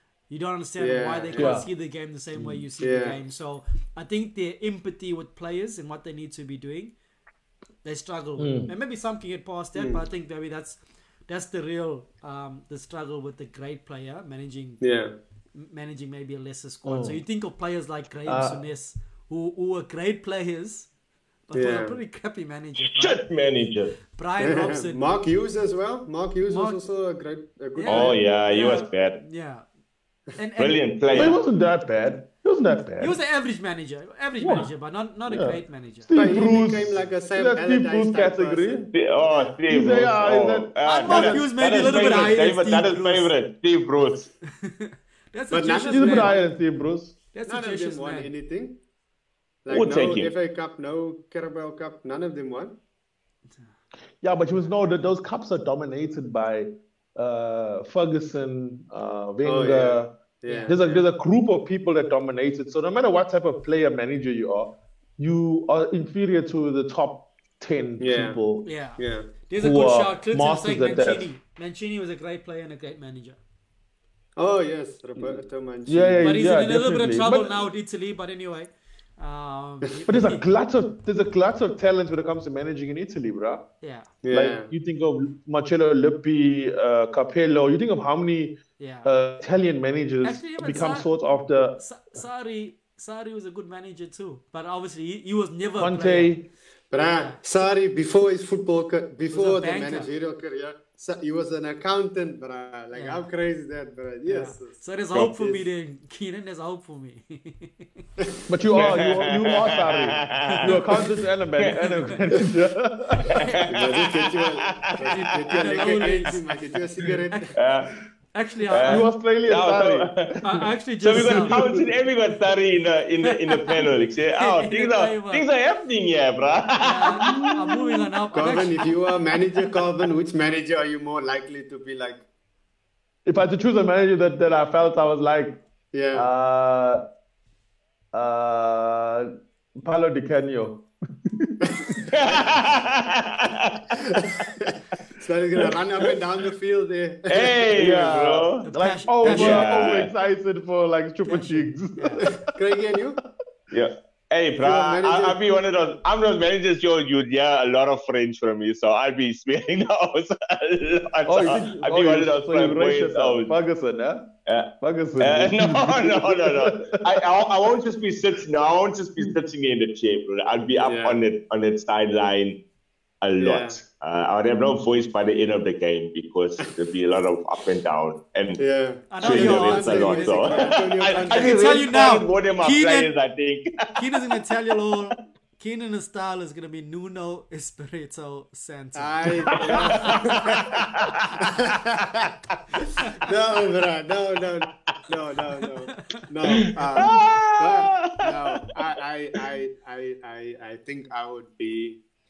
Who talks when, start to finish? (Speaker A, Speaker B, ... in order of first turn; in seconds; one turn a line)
Speaker A: 0.3-6.9
Speaker B: 0.8-1.6
Speaker C: 1.4-1.7
Speaker C: 2.4-2.6
Speaker B: 2.8-3.2
Speaker A: 7.8-14.8
Speaker C: 8.4-8.7
Speaker B: 9.8-10.0
Speaker B: 14.8-15.1
Speaker A: 15.5-20.9
Speaker C: 16.9-17.2
Speaker C: 18.2-18.6
Speaker A: 21.5-23.2
Speaker B: 21.5-22.0
Speaker D: 22.8-24.0
Speaker A: 24.1-25.0
Speaker B: 24.4-28.2
Speaker A: 26.5-26.8
Speaker A: 27.8-29.6
Speaker D: 27.9-29.2
Speaker A: 30.4-30.8
Speaker D: 30.6-31.4
Speaker C: 31.1-33.2
Speaker A: 33.0-36.1
Speaker C: 34.4-34.7
Speaker C: 35.3-38.9
Speaker B: 36.1-38.9
Speaker D: 38.9-44.3
Speaker C: 39.7-41.5
Speaker A: 40.8-43.3
Speaker A: 44.5-46.4
Speaker B: 45.5-46.4
Speaker C: 45.9-47.1
Speaker A: 47.3-48.3
Speaker B: 47.5-48.8
Speaker B: 49.6-52.7
Speaker D: 49.7-50.3
Speaker C: 54.2-60.1
Speaker B: 59.4-61.0
Speaker A: 60.5-60.8
Speaker C: 60.6-68.7
Speaker B: 68.0-68.4
Speaker A: 68.6-73.4
Speaker B: 69.0-69.3
Speaker C: 69.6-71.2
Speaker B: 74.3-76.3
Speaker C: 75.9-77.7
Speaker A: 76.2-80.4
Speaker C: 80.1-83.6
Speaker A: 83.8-84.1
Speaker B: 84.2-84.7
Speaker C: 84.3-91.8
Speaker A: 88.8-89.1
Speaker A: 90.2-91.1
Speaker A: 91.8-96.3
Speaker C: 95.8-96.5
Speaker B: 96.9-104.8
Speaker A: 99.3-100.1
Speaker A: 102.9-103.2
Speaker A: 104.2-108.0
Speaker C: 108.5-113.3
Speaker D: 108.7-110.7
Speaker A: 110.5-111.0
Speaker A: 111.8-112.1
Speaker D: 113.2-115.5
Speaker A: 113.4-113.7
Speaker B: 113.7-117.5
Speaker A: 115.1-116.5
Speaker D: 117.5-118.0
Speaker A: 118.3-119.1
Speaker D: 118.7-120.4
Speaker C: 118.8-120.6
Speaker A: 120.4-121.5
Speaker D: 121.0-127.8
Speaker C: 121.2-121.8
Speaker A: 123.2-123.8
Speaker A: 124.4-125.4
Speaker A: 126.8-128.9
Speaker C: 127.2-127.5
Speaker B: 128.3-132.2
Speaker C: 133.2-135.6
Speaker B: 135.9-136.3
Speaker C: 136.1-137.0
Speaker C: 138.1-142.0
Speaker B: 141.7-142.5
Speaker D: 142.1-144.0
Speaker B: 143.9-148.1
Speaker D: 147.3-148.6
Speaker C: 147.8-152.4
Speaker A: 148.6-149.8
Speaker D: 149.2-150.1
Speaker A: 151.2-152.2
Speaker B: 152.2-153.2
Speaker D: 153.7-163.5
Speaker B: 154.6-155.4
Speaker C: 161.2-164.3
Speaker D: 164.4-172.6
Speaker C: 164.8-167.1
Speaker B: 170.8-171.2
Speaker D: 173.2-178.6
Speaker B: 173.4-173.8
Speaker B: 178.6-181.8
Speaker A: 179.1-183.1
Speaker D: 179.2-184.3
Speaker A: 183.9-190.3
Speaker B: 188.9-190.8
Speaker D: 189.6-191.3
Speaker B: 191.4-202.0
Speaker A: 195.9-196.2
Speaker D: 196.7-198.6